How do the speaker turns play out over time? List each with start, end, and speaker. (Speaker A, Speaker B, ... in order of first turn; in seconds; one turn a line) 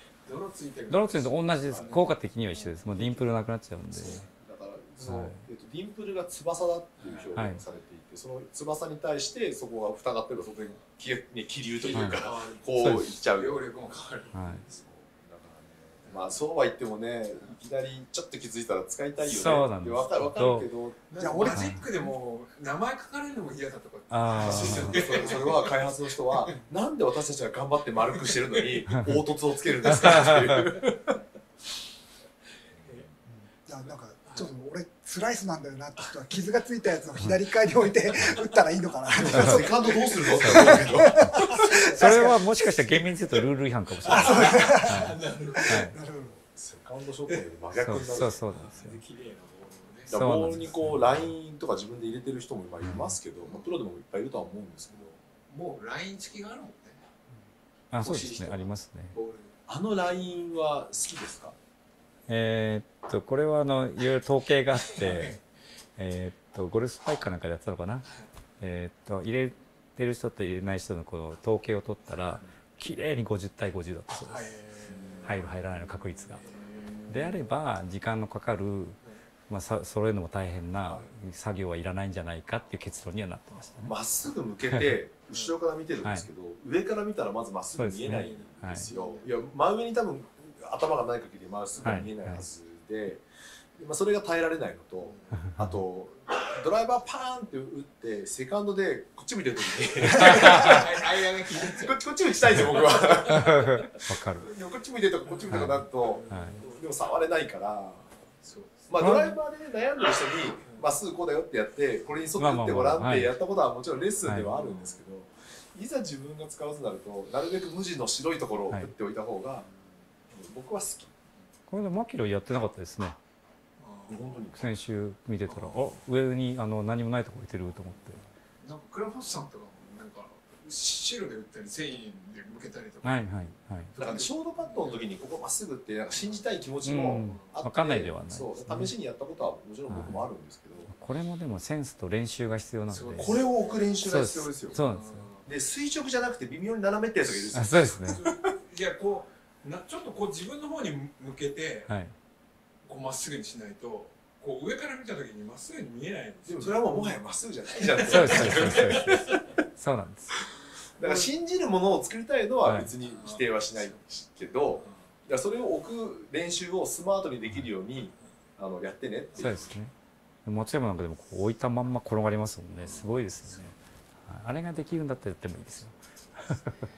Speaker A: 0.2-2.7
Speaker B: 0.9-4.2
Speaker C: 1.7-1.9
Speaker C: 3.0-3.2
Speaker C: 3.9-13.6
Speaker B: 5.0-5.4
Speaker A: 7.0-7.6
Speaker B: 7.3-7.6
Speaker A: 11.8-14.4
Speaker B: 11.9-12.2
Speaker B: 12.8-13.1
Speaker B: 14.3-14.6
Speaker C: 14.3-21.6
Speaker A: 16.1-16.4
Speaker B: 19.2-20.7
Speaker A: 21.1-25.9
Speaker D: 21.2-21.8
Speaker B: 21.5-21.8
Speaker B: 24.1-25.1
Speaker C: 24.4-31.1
Speaker B: 28.9-29.1
Speaker A: 30.0-30.4
Speaker B: 30.1-30.4
Speaker D: 33.3-42.4
Speaker C: 39.1-41.7
Speaker B: 39.3-39.6
Speaker B: 40.4-45.9
Speaker A: 44.0-45.9
Speaker D: 44.0-46.4
Speaker C: 46.4-48.4
Speaker B: 47.8-49.0
Speaker A: 48.1-50.1
Speaker C: 50.1-55.2
Speaker B: 50.1-51.2
Speaker B: 52.8-53.1
Speaker A: 53.4-53.7
Speaker A: 54.9-57.0
Speaker B: 57.9-59.1
Speaker A: 58.0-59.5
Speaker C: 59.7-61.5
Speaker B: 62.3-65.4
Speaker A: 64.9-65.4
Speaker B: 66.0-68.1
Speaker B: 68.6-74.5
Speaker A: 74.2-75.3
Speaker C: 74.9-75.2
Speaker B: 75.2-76.4
Speaker A: 76.3-77.4
Speaker B: 77.1-79.0
Speaker B: 79.5-83.9
Speaker C: 83.8-93.2
Speaker B: 87.8-88.9
Speaker A: 88.1-89.3
Speaker B: 91.8-92.4
Speaker C: 93.8-108.0
Speaker A: 95.0-95.4
Speaker A: 100.0-102.0
Speaker B: 100.2-100.8
Speaker A: 102.9-103.2
Speaker B: 103.3-104.5
Speaker B: 105.5-106.6
Speaker A: 105.5-106.8
Speaker A: 108.4-108.9
Speaker C: 108.9-119.7
Speaker B: 109.0-109.4
Speaker B: 112.4-113.3
Speaker A: 114.5-115.0
Speaker C: 120.3-121.1
Speaker B: 121.7-123.2
Speaker A: 123.8-124.4
Speaker C: 124.1-124.6
Speaker B: 124.5-128.2
Speaker A: 125.5-125.9
Speaker A: 128.6-133.3
Speaker B: 133.0-133.9
Speaker A: 133.9-135.0
Speaker C: 134.0-140.9
Speaker B: 136.8-138.9
Speaker A: 137.2-137.5
Speaker B: 139.9-140.2
Speaker B: 140.9-143.4
Speaker A: 142.9-143.8
Speaker C: 143.1-144.8
Speaker B: 144.0-145.3
Speaker A: 144.7-145.4
Speaker C: 145.4-148.4
Speaker B: 147.5-148.2
Speaker A: 148.0-151.9
Speaker B: 151.9-152.1
Speaker A: 152.8-157.2
Speaker C: 156.4-159.4
Speaker A: 157.7-159.4
Speaker B: 158.1-159.2
Speaker B: 159.8-160.3
Speaker C: 161.0-169.6
Speaker B: 162.6-162.9
Speaker A: 163.0-164.0
Speaker B: 169.4-169.9
Speaker A: 169.4-169.7
Speaker B: 170.4-176.8
Speaker A: 172.9-173.6